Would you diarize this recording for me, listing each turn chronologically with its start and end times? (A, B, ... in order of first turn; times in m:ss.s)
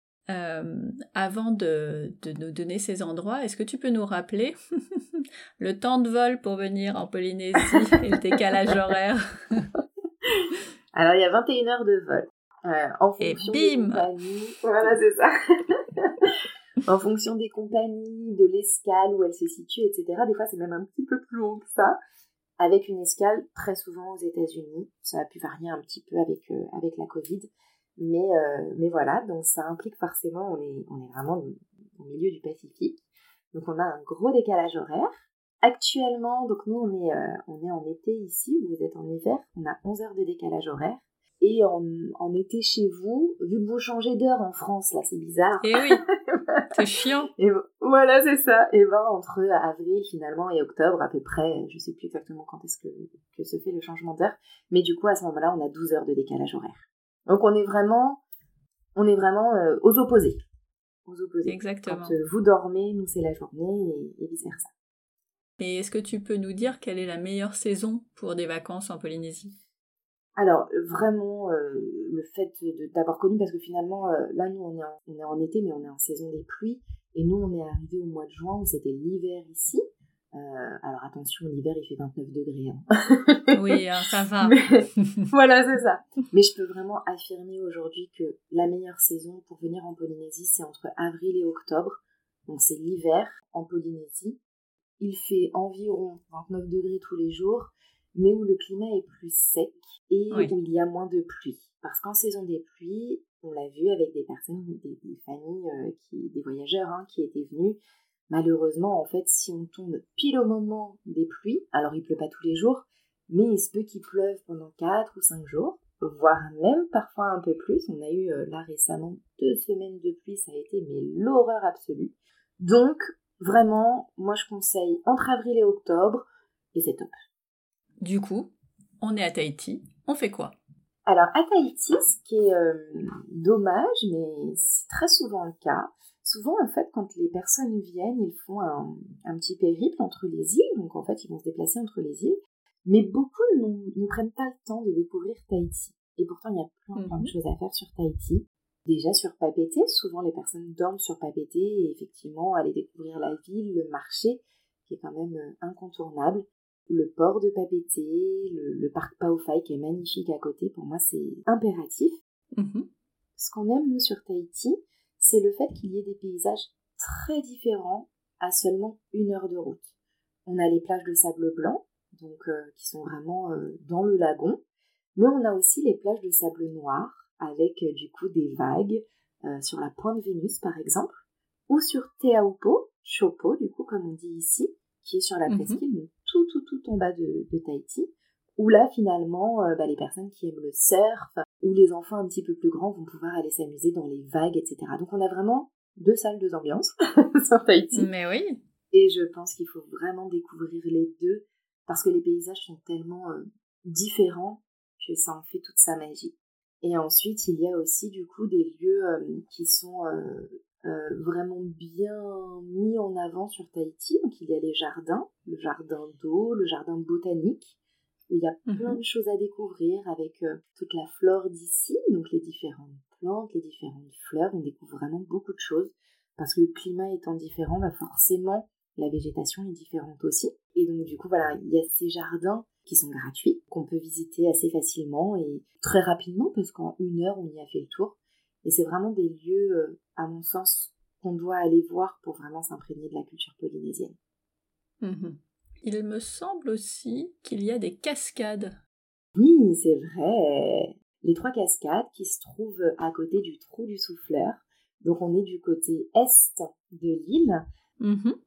0:00.3-0:09.2 A
0:10.9-0:15.3 B
0:13.2-0:14.1 A
0:16.0-0:16.3 B
0:16.9-0:22.0 B
0:22.6-0:33.0 B
0:33.5-0:45.8 B
0:45.6-0:46.0 A
0:46.3-0:46.6 B
0:46.7-0:47.3 A
0:47.4-0:58.2 B
0:59.0-1:00.4 B
1:01.1-1:04.7 B
1:01.4-1:02.2 A
1:05.6-1:09.5 A
1:10.4-1:19.8 B
1:20.3-1:23.6 B
1:23.5-1:24.6 A
1:24.4-1:34.4 B
1:35.0-1:47.8 B
1:48.3-2:07.1 B
2:08.0-2:10.6 A
2:11.1-2:42.2 B
2:27.0-2:27.3 A
2:42.6-2:42.9 A
2:43.4-2:49.9 B
2:50.5-2:54.6 B
2:55.2-3:18.1 B
3:05.5-3:05.8 A
3:18.0-3:18.6 A
3:18.9-3:37.8 B
3:38.3-4:04.2 B
3:38.7-3:39.0 A
4:05.0-4:08.8 A
4:09.4-4:17.6 B
4:18.0-4:18.4 A